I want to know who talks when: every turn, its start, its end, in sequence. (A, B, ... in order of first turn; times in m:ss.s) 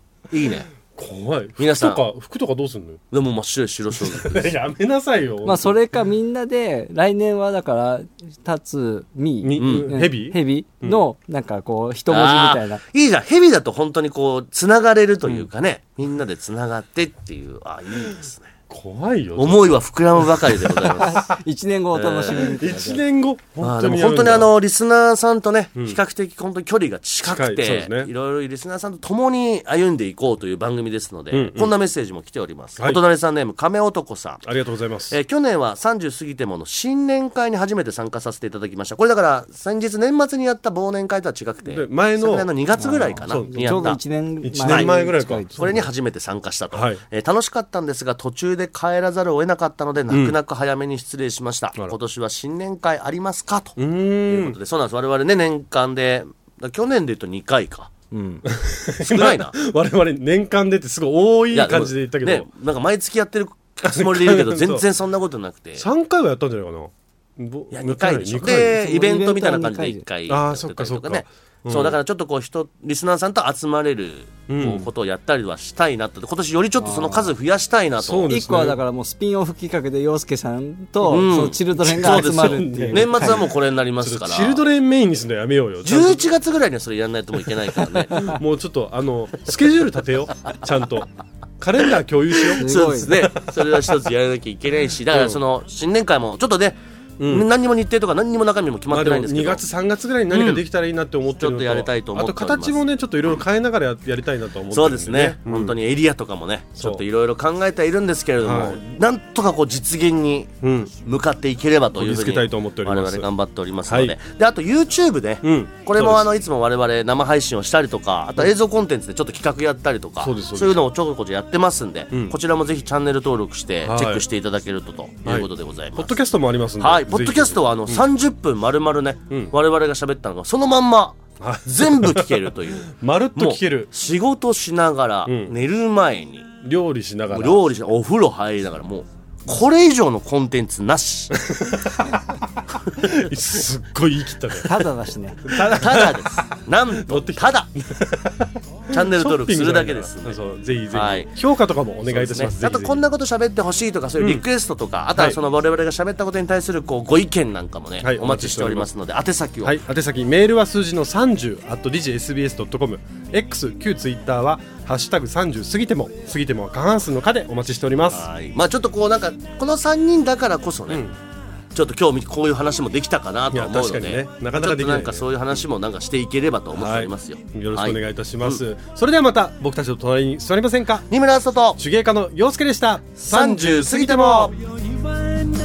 0:00.3-0:00.7 A
0:00.9-0:03.0 B
0:01.6-0:02.0 A
0:03.1-0:04.5 A
0:04.0-0:05.8 B
0:05.4-0:12.8 C
0:09.4-0:11.0 B
0:09.6-0:09.9 A
0:12.1-0:18.5 A
0:18.7-0:20.9 B
0:19.4-0:21.2 A
0:21.0-0:23.0 C
0:22.0-0:22.5 A
0:22.4-0:24.5 B
0:23.6-0:34.5 A
0:27.2-0:28.1 B
0:31.3-0:31.7 B
0:34.4-0:35.2 B
0:35.1-0:44.0 A
0:41.7-0:45.9 B
0:43.5-0:45.5 C
0:44.6-0:44.9 A
0:45.6-0:57.9 A
0:46.7-0:47.0 B
0:50.1-0:50.4 B
0:53.8-0:54.6 B
0:58.1-0:58.4 C
0:58.5-1:02.5 B
0:59.0-0:59.6 A
1:01.5-1:05.8 A
1:04.0-1:04.8 B
1:05.8-1:08.8 B
1:07.7-1:18.3 A
1:08.7-1:10.0 C
1:10.3-1:12.0 B
1:14.5-1:14.9 B
1:16.8-1:17.3 C
1:18.0-1:18.8 B
1:18.3-1:23.5 C
1:21.1-1:24.6 A
1:21.8-1:23.5 B
1:24.0-1:26.3 B
1:25.8-1:28.4 A
1:28.1-1:33.2 B
1:32.5-1:39.6 A
1:32.6-1:33.3 C
1:35.1-1:35.4 B
1:37.2-1:37.5 B
1:38.9-1:45.8 B
1:40.3-1:40.6 A
1:41.4-1:42.8 A
1:44.7-2:06.1 A
1:46.8-1:47.0 B
1:48.4-1:48.8 B
1:50.6-1:50.9 B
1:52.0-1:53.3 B
1:53.9-1:54.2 B
1:55.4-1:56.3 B
2:00.2-2:00.8 B
2:03.8-2:04.2 B
2:05.2-2:08.0 B
2:06.8-2:16.5 A
2:11.4-2:13.9 B
2:15.3-2:15.5 B
2:16.6-2:17.7 B
2:17.3-2:21.4 A
2:21.5-2:22.0 B
2:23.0-2:24.8 B
2:24.7-2:25.4 C
2:25.5-2:26.4 B
2:25.5-2:27.7 A
2:27.0-2:33.0 B
2:28.9-2:31.3 A
2:32.1-2:39.8 A
2:34.2-2:34.4 B
2:38.0-2:38.9 B
2:39.6-2:48.2 B
2:48.1-2:51.0 A
2:50.9-2:51.2 B
2:51.7-2:58.6 A
2:53.5-2:55.3 B
2:56.8-3:01.1 B
3:01.1-3:01.8 A
3:01.8-3:04.5 B
3:03.2-3:04.5 A